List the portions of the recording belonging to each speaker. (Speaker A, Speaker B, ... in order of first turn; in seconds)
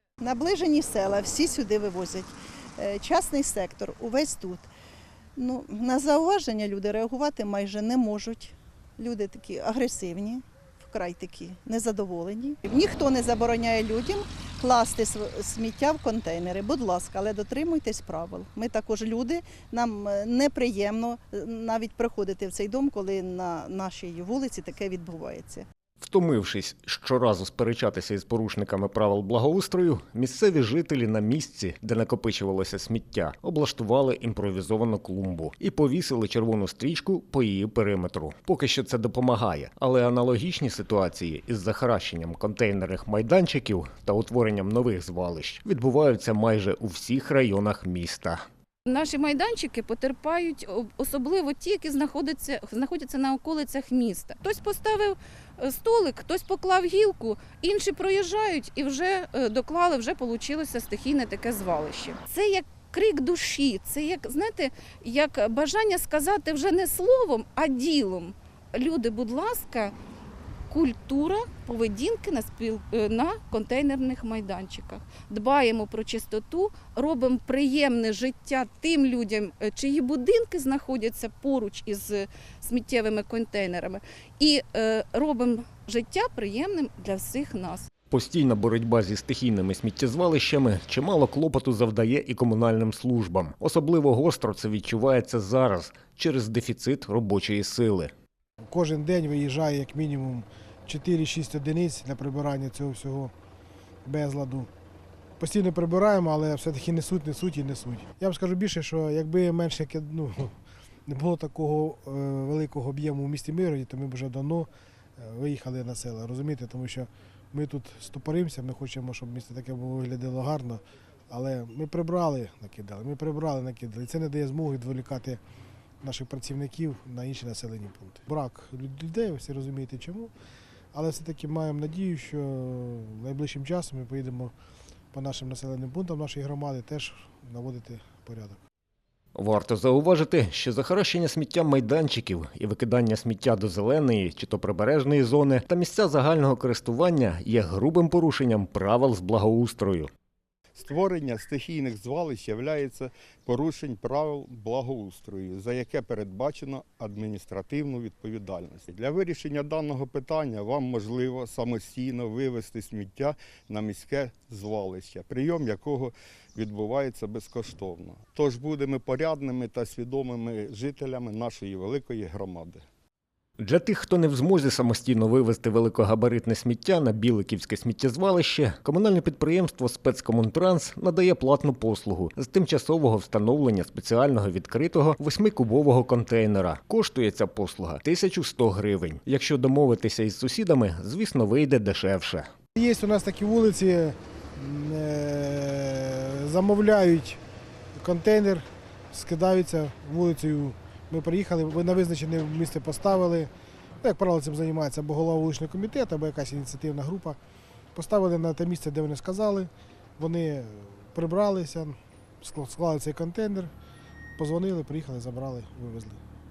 Speaker A: 0.2-4.7, 5.3-25.6
Speaker B: 26.0-48.4, 88.1-98.1, 139.3-150.1, 173.6-192.5
Speaker C: 48.9-69.9, 70.7-87.9
Speaker D: 98.7-103.3, 104.0-104.7, 105.4-110.5, 111.1-125.4, 126.0-130.3, 130.9-134.5, 135.1-138.6, 192.8-197.4, 197.9-203.5, 204.0-207.4, 207.9-213.7, 214.4-216.2
Speaker E: 150.8-172.8